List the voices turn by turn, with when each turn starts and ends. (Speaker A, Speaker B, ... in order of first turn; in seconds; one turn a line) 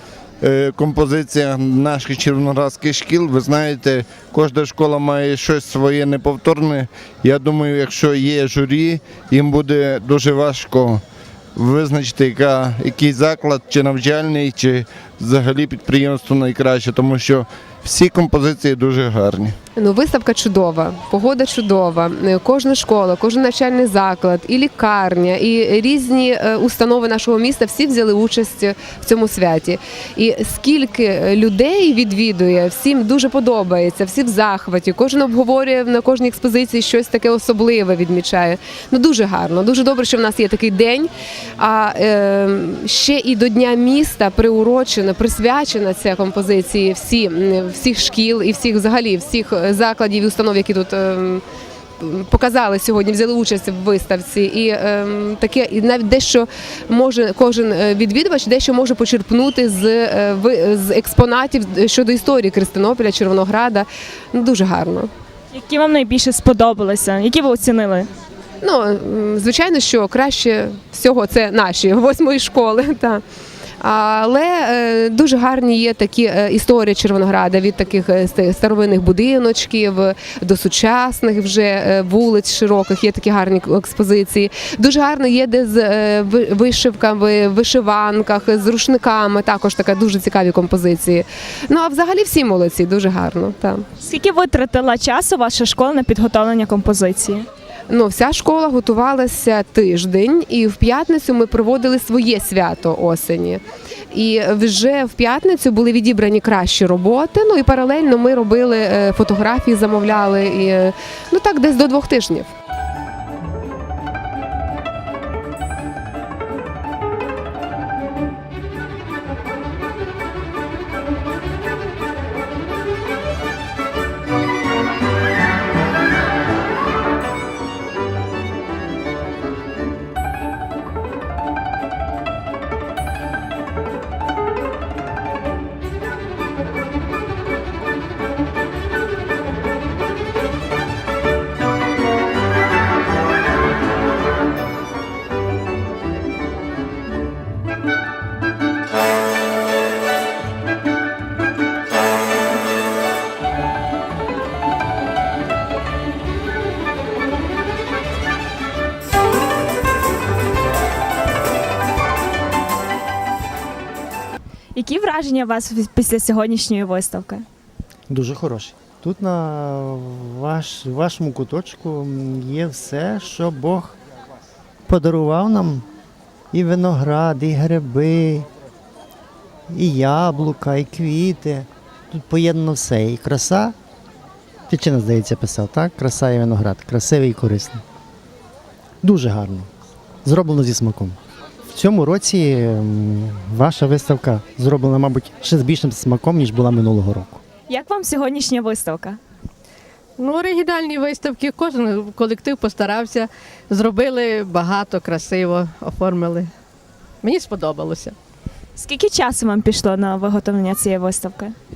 Speaker A: 0.4-11.0
Speaker A: 11.6-19.5
Speaker B: 19.8-51.4
Speaker B: 52.0-65.1
Speaker C: 65.5-68.1
Speaker B: 68.6-73.2
Speaker B: 73.8-93.8
Speaker C: 94.0-97.5
Speaker B: 97.9-103.6
Speaker B: 104.1-112.5
Speaker C: 164.7-167.4
Speaker D: 168.1-173.9
Speaker D: 174.9-175.8
Speaker D: 176.5-178.5
Speaker D: 179.7-183.7
Speaker D: 184.7-187.8
Speaker D: 189.0-189.7
Speaker D: 190.2-191.2
Speaker D: 191.7-197.4
Speaker C: 197.7-199.2
Speaker E: 200.2-206.5
Speaker E: 207.2-208.1
Speaker C: 208.8-211.5